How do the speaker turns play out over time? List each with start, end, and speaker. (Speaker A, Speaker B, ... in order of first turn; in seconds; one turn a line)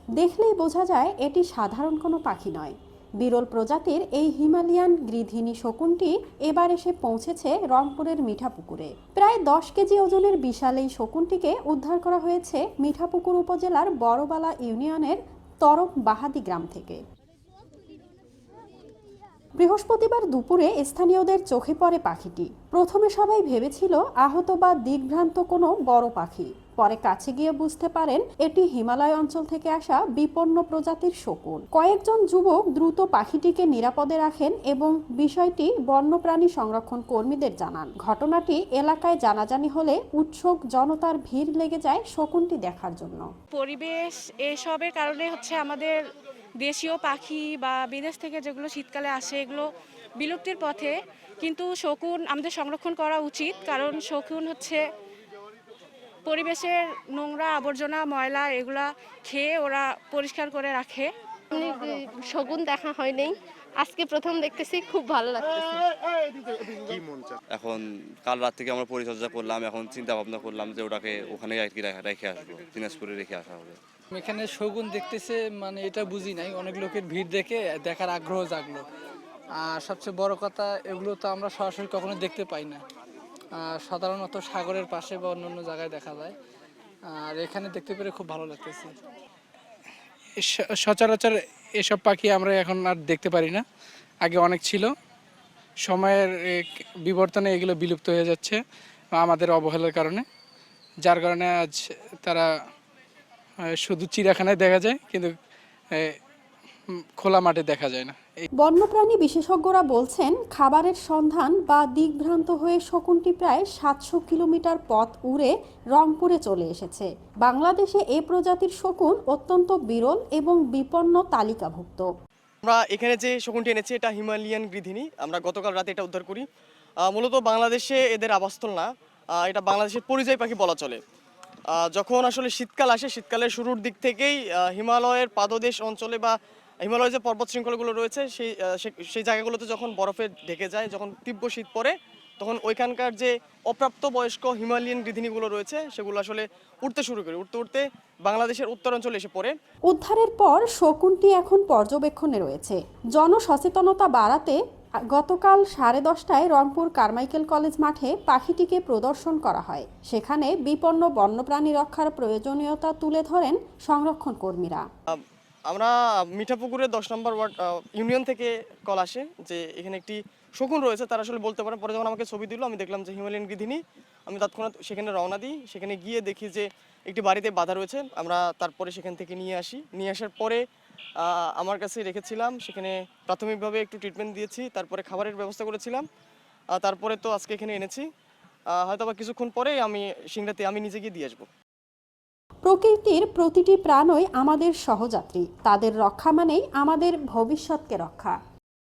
Speaker A: 0.2-17.0
Speaker A: 19.6-43.3
Speaker B: 43.5-46.0
Speaker B: 46.6-49.7
Speaker B: 50.2-54.8
Speaker B: 56.3-61.1
Speaker C: 61.5-65.9
Speaker D: 67.5-73.8
Speaker E: 74.2-78.9
Speaker E: 79.6-82.8
Speaker E: 83.6-86.3
Speaker E: 87.1-88.9
Speaker F: 90.4-93.6
Speaker F: 94.2-94.9
Speaker F: 95.8-98.6
Speaker F: 99.2-100.2
Speaker F: 101.0-102.5
Speaker F: 103.8-105.3
Speaker F: 107.2-108.5
Speaker A: 108.6-122.1
Speaker G: 122.7-126.5
Speaker G: 127.0-131.0
Speaker G: 131.7-149.5
Speaker A: 149.9-154.6
Speaker A: 155.1-164.9
Speaker G: 165.1-180.6
Speaker G: 181.2-186.1
Speaker G: 186.8-188.1
Speaker G: 188.7-191.5
Speaker A: 192.7-198.4